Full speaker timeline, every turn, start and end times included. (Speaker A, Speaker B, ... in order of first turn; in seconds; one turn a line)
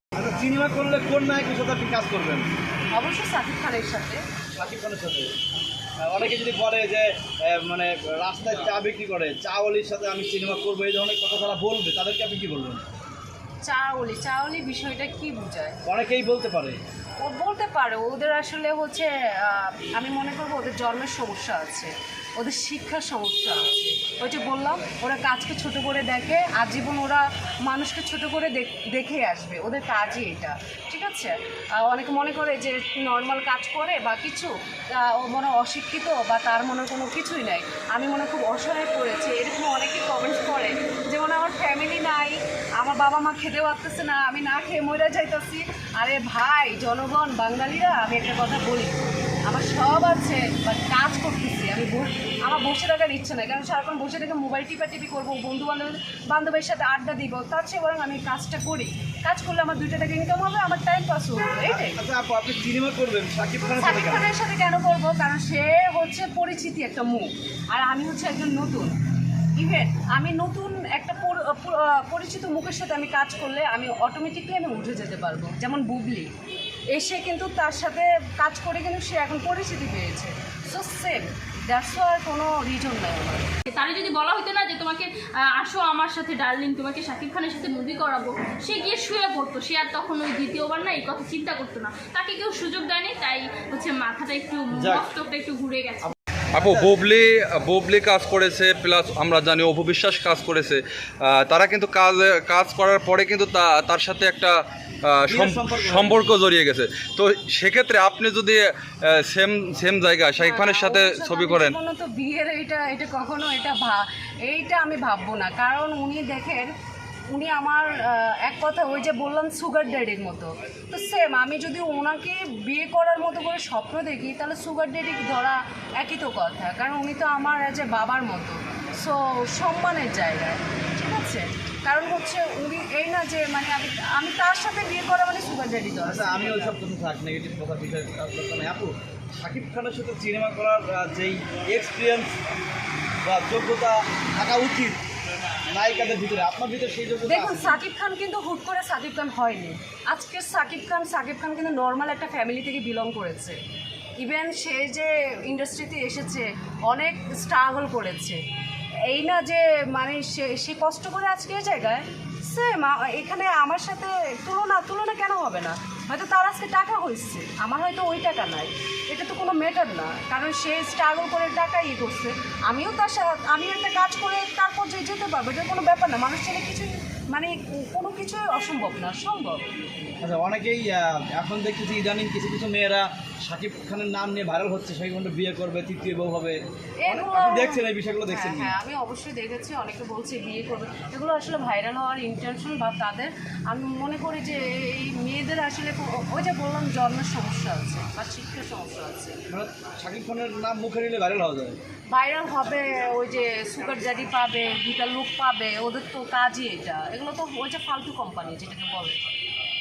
Speaker A: 0.1-2.5
Speaker B: 2.9-4.2
Speaker A: 4.5-5.3
Speaker A: 6.0-12.8
Speaker B: 13.6-15.8
Speaker A: 15.8-16.8
Speaker B: 17.2-62.0
Speaker A: 61.6-64.2
Speaker B: 63.8-68.9
Speaker B: 69.5-76.3
Speaker B: 76.9-83.5
Speaker C: 83.7-96.1
Speaker A: 94.7-95.0
Speaker D: 96.5-111.8
Speaker A: 96.6-96.9
Speaker A: 105.3-106.2
Speaker B: 110.4-116.7
Speaker B: 117.3-136.7
Speaker A: 136.0-142.3
Speaker A: 143.2-145.0
Speaker A: 145.7-147.8
Speaker B: 147.3-153.6
Speaker B: 154.2-158.4
Speaker B: 159.1-179.6
Speaker A: 180.2-188.8
Speaker B: 187.0-199.4
Speaker A: 199.5-201.8
Speaker B: 202.1-209.2